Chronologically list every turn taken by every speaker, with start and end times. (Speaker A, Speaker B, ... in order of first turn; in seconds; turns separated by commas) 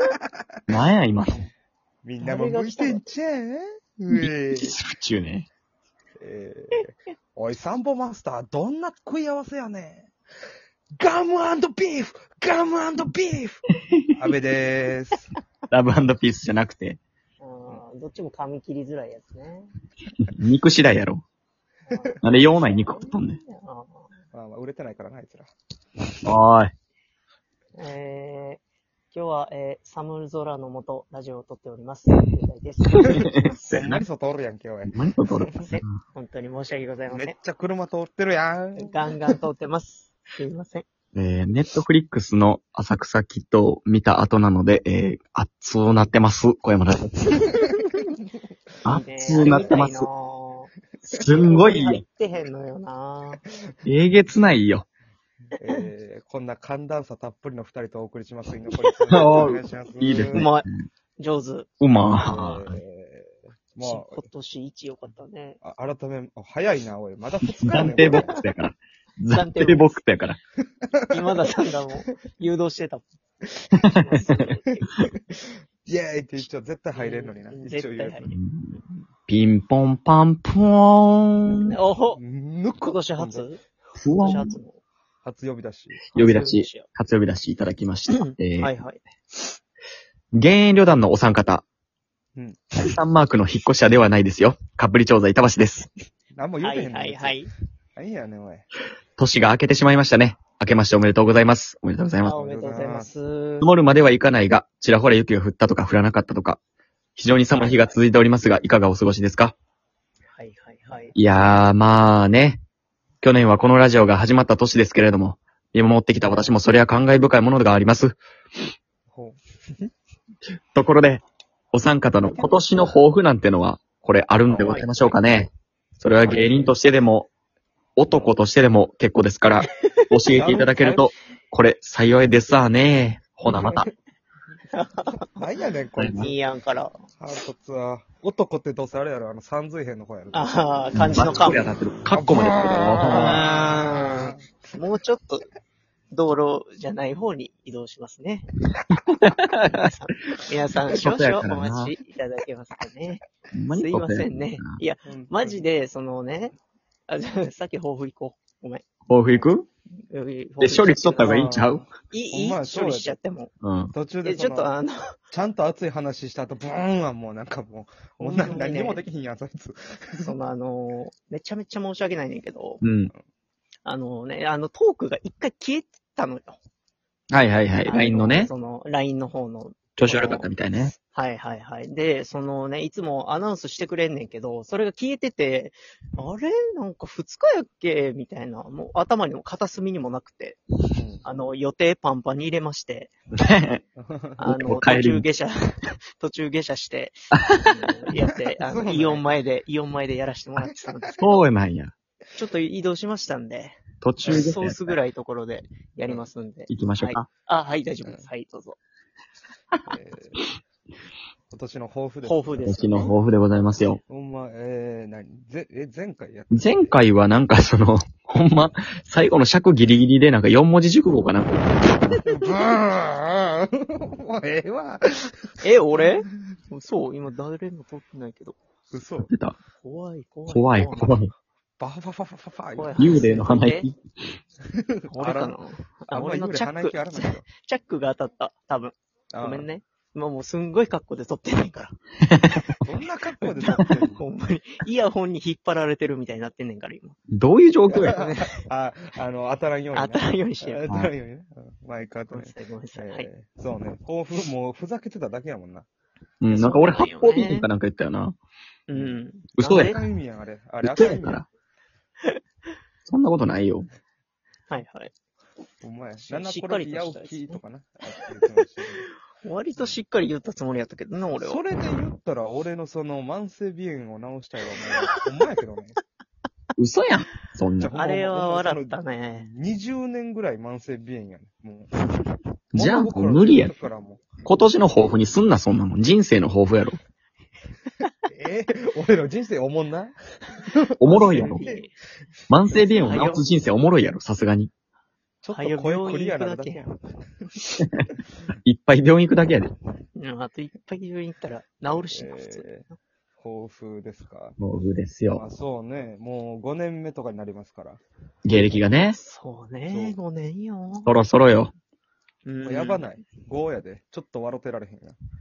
Speaker A: 0.7-1.4, Speaker B: 2.0-4.8, Speaker C: 2.2-3.0, Speaker A: 4.1-5.5, Speaker B: 6.2-10.1, Speaker B: 11.0-15.3, Speaker A: 13.9-14.2, Speaker A: 15.7-17.0, Speaker C: 17.4-19.7, Speaker A: 20.2-21.2, Speaker C: 21.9-24.1, Speaker B: 21.9-22.1, Speaker A: 22.2-23.4, Speaker B: 24.3-25.5, Speaker A: 26.2-26.7, Speaker C: 27.8-33.6, Speaker A: 33.0-34.0, Speaker B: 33.0-35.7, Speaker A: 34.8-35.9, Speaker C: 35.6-37.3, Speaker B: 37.1-39.3, Speaker C: 38.8-40.9, Speaker A: 41.1-47.6, Speaker B: 47.5-48.0, Speaker A: 48.8-50.0, Speaker C: 48.9-50.7, Speaker B: 49.4-49.7, Speaker B: 51.0-51.5, Speaker A: 51.1-52.0, Speaker C: 51.4-53.4, Speaker A: 53.9-54.9, Speaker B: 55.5-60.5, Speaker A: 59.1-60.8, Speaker C: 60.3-61.7, Speaker A: 61.8-62.7, Speaker B: 62.2-64.2, Speaker C: 63.8-65.6, Speaker B: 65.6-68.4, Speaker A: 67.6-70.4, Speaker C: 67.9-68.4, Speaker C: 69.3-70.0, Speaker C: 71.1-73.0, Speaker C: 73.8-74.9, Speaker B: 75.9-78.3, Speaker C: 76.9-78.3, Speaker A: 78.3-78.8, Speaker A: 79.3-81.7, Speaker C: 81.6-82.2, Speaker B: 82.2-83.5, Speaker C: 82.8-83.6, Speaker A: 84.0-84.6, Speaker C: 84.2-84.8, Speaker B: 85.2-86.1, Speaker A: 86.1-88.7, Speaker C: 86.1-86.9, Speaker C: 88.1-89.0, Speaker A: 90.3-91.6, Speaker B: 92.3-92.8, Speaker A: 92.8-95.9, Speaker B: 96.3-97.4, Speaker C: 96.6-97.5, Speaker B: 98.0-98.7, Speaker A: 99.2-102.4, Speaker C: 102.2-103.7, Speaker B: 102.3-103.1, Speaker A: 103.6-106.6, Speaker A: 107.2-109.5, Speaker C: 107.5-108.0, Speaker C: 110.3-111.2, Speaker A: 111.2-112.6, Speaker A: 113.2-118.2, Speaker B: 119.1-119.4, Speaker A: 120.7-127.3, Speaker C: 124.5-125.1, Speaker B: 124.5-124.8, Speaker B: 126.2-126.7, Speaker A: 128.0-133.9, Speaker B: 128.1-128.3, Speaker B: 130.3-131.1, Speaker B: 133.4-133.9, Speaker C: 134.7-135.2, Speaker B: 135.3-136.3, Speaker A: 136.0-136.3, Speaker C: 136.2-136.9, Speaker B: 137.2-141.5, Speaker C: 140.3-141.7, Speaker A: 140.9-143.5, Speaker B: 142.1-144.4, Speaker C: 143.0-145.5, Speaker C: 146.1-148.5, Speaker A: 149.1-149.8, Speaker C: 149.6-156.6, Speaker A: 150.9-151.9, Speaker A: 153.5-154.8, Speaker B: 155.0-155.7, Speaker C: 157.1-158.8, Speaker A: 159.1-159.7, Speaker C: 160.1-161.5, Speaker A: 160.6-161.8, Speaker B: 161.2-163.2, Speaker C: 162.1-163.5, Speaker A: 163.6-163.9, Speaker B: 163.9-164.7, Speaker C: 164.2-165.2, Speaker B: 165.3-170.3, Speaker C: 168.2-169.0, Speaker C: 170.2-172.8, Speaker A: 172.8-173.1, Speaker C: 173.8-176.6, Speaker A: 177.3-178.5, Speaker C: 177.8-180.5, Speaker A: 180.0-180.9, Speaker C: 181.0-190.6, Speaker B: 190.9-191.2, Speaker C: 191.2-193.1, Speaker A: 193.4-193.8, Speaker B: 193.9-194.5, Speaker C: 194.4-195.6, Speaker A: 194.5-195.2, Speaker C: 196.2-201.2, Speaker B: 198.6-199.2, Speaker A: 201.2-201.9, Speaker C: 202.3-208.8, Speaker A: 204.0-204.8, Speaker B: 204.2-204.5, Speaker A: 206.7-207.2, Speaker B: 209.8-210.5, Speaker B: 211.5-213.2, Speaker C: 212.2-213.1, Speaker A: 212.6-214.0, Speaker B: 214.1-216.9, Speaker A: 216.5-221.8, Speaker B: 222.2-225.3, Speaker C: 225.6-228.6, Speaker B: 228.9-229.3, Speaker A: 229.2-229.6, Speaker C: 229.8-231.2, Speaker A: 230.5-231.3, Speaker B: 231.8-233.2, Speaker C: 232.7-233.9, Speaker A: 233.0-234.0, Speaker B: 234.7-235.6, Speaker C: 235.1-242.0, Speaker B: 236.1-237.4, Speaker B: 239.3-239.7, Speaker A: 242.3-242.6, Speaker B: 242.8-244.2, Speaker C: 243.4-247.2, Speaker A: 247.3-248.3, Speaker B: 247.9-255.9, Speaker C: 249.9-250.8, Speaker C: 252.3-253.3, Speaker A: 256.4-258.4, Speaker C: 256.5-257.7, Speaker C: 258.9-260.0, Speaker B: 258.9-261.4, Speaker A: 259.6-259.9, Speaker A: 260.8-261.4, Speaker A: 263.1-263.9, Speaker C: 264.7-265.1, Speaker B: 265.8-269.1, Speaker C: 266.2-267.6, Speaker C: 269.4-271.6, Speaker B: 271.3-276.0, Speaker A: 276.8-277.9, Speaker B: 277.8-281.9, Speaker C: 277.9-279.5, Speaker A: 282.7-283.7, Speaker B: 282.7-284.4, Speaker A: 284.4-287.0, Speaker B: 288.3-291.8, Speaker A: 291.0-291.6, Speaker C: 291.1-291.9, Speaker A: 292.5-294.7, Speaker C: 292.9-293.4, Speaker B: 295.4-297.7, Speaker C: 295.5-296.8, Speaker A: 297.8-298.1, Speaker A: 298.6-299.7, Speaker C: 300.1-302.9, Speaker B: 301.9-304.6, Speaker A: 304.6-305.4, Speaker B: 305.3-308.0, Speaker A: 308.4-309.2, Speaker C: 309.1-311.1, Speaker B: 309.9-310.2, Speaker A: 311.1-311.7, Speaker C: 312.4-313.2, Speaker B: 312.6-315.1